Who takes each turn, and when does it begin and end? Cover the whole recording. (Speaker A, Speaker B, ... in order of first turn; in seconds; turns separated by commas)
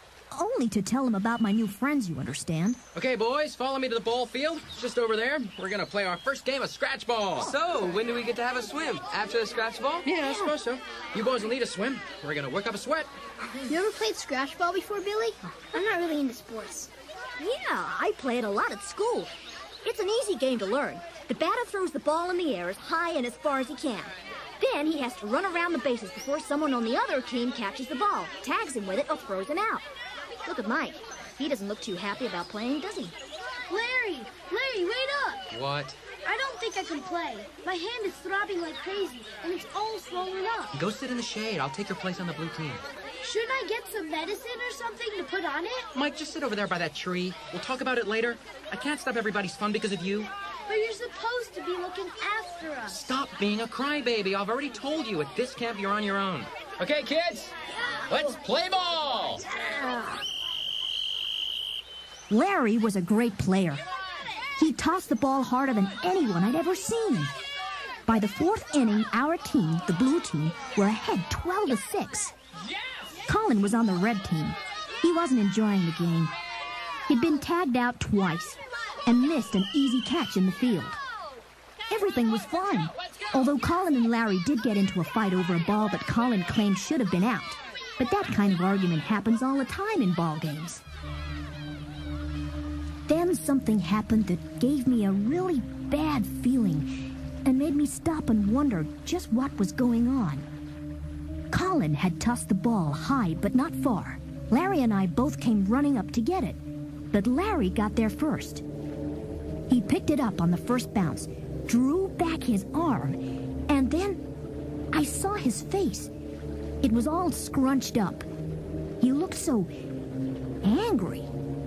Speaker A: 0.3-2.8, Speaker B: 3.0-7.5, Speaker C: 7.4-10.1, Speaker B: 10.1-13.1, Speaker A: 10.2-10.5, Speaker D: 13.7-16.9, Speaker A: 17.4-19.3, Speaker A: 19.8-29.9, Speaker A: 30.4-33.2, Speaker E: 33.7-35.5, Speaker B: 35.5-36.0, Speaker E: 36.2-40.8, Speaker B: 40.7-42.8, Speaker E: 43.2-45.9, Speaker B: 45.9-50.3, Speaker E: 50.7-53.1, Speaker B: 52.9-57.5, Speaker B: 58.1-59.4, Speaker A: 59.6-60.2, Speaker A: 62.3-63.8, Speaker A: 64.6-67.3, Speaker A: 68.1-72.3, Speaker A: 73.3-76.3, Speaker A: 77.1-81.0, Speaker A: 81.9-90.8, Speaker A: 93.1-100.5, Speaker A: 101.5-106.6, Speaker A: 107.1-108.6, Speaker A: 109.7-114.2, Speaker A: 114.9-116.1, Speaker A: 116.8-118.2, Speaker A: 119.0-119.7, Speaker A: 120.6-121.3